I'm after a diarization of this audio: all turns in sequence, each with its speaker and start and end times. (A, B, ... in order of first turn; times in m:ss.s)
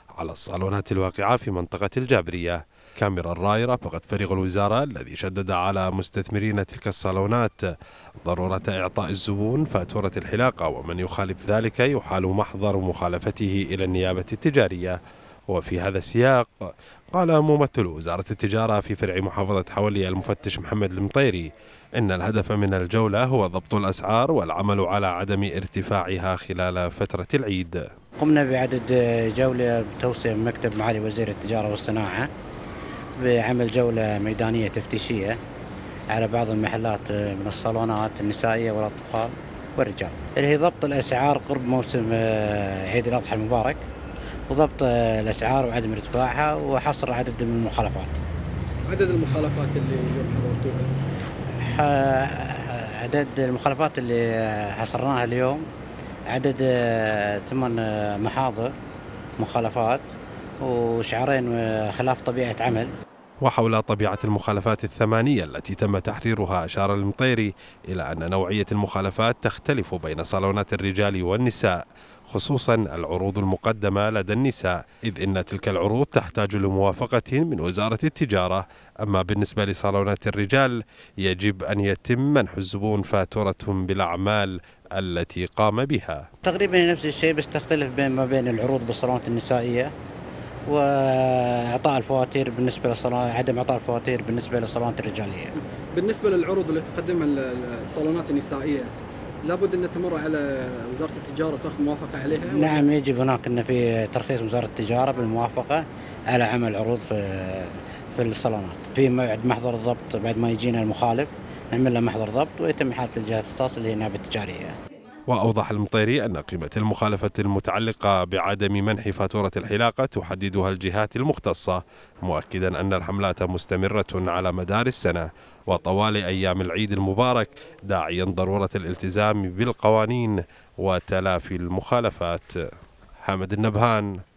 0:00.2-0:07.6 A
0:08.2-0:15.0 A
0:15.5-0:16.5 A
0:17.1-0:27.8 A
0:28.2-0:32.3 B
0:33.2-0:35.4 B
0:36.1-0:43.8 B
0:44.5-0:48.2 B
0:48.9-0:50.9 C
0:51.6-0:55.6 B
0:56.3-0:58.7 B
0:59.4-1:00.0 B
1:00.6-1:02.9 B
1:03.4-1:11.8 A
1:12.3-1:26.3 A
1:26.4-1:29.9 B
1:30.7-1:35.6 B
1:35.9-1:38.9 C
1:39.4-1:42.9 C
1:42.4-1:54.8 B
1:55.3-2:12.7 A
2:13.2-2:14.1 A